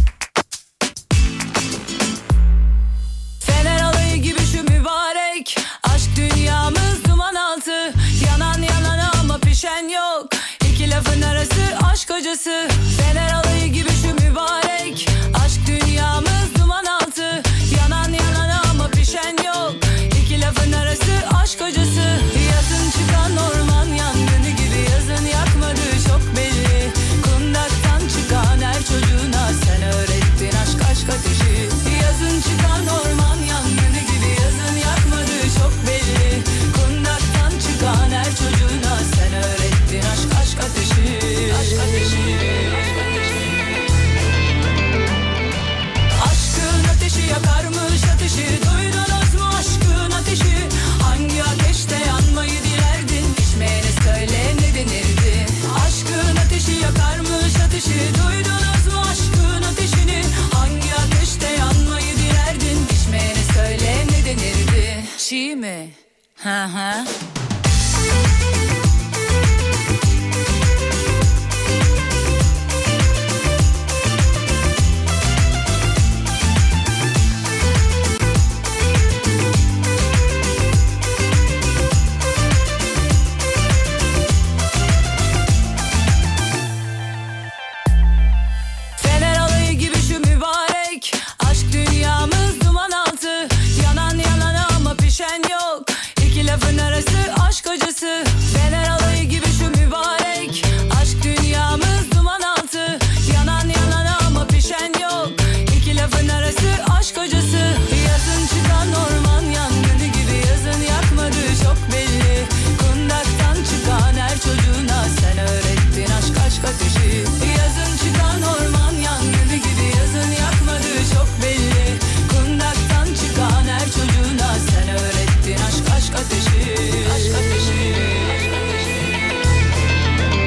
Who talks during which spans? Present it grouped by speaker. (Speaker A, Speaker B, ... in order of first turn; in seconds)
Speaker A: 3.4-43.6, 46.2-67.1, 89.0-128.9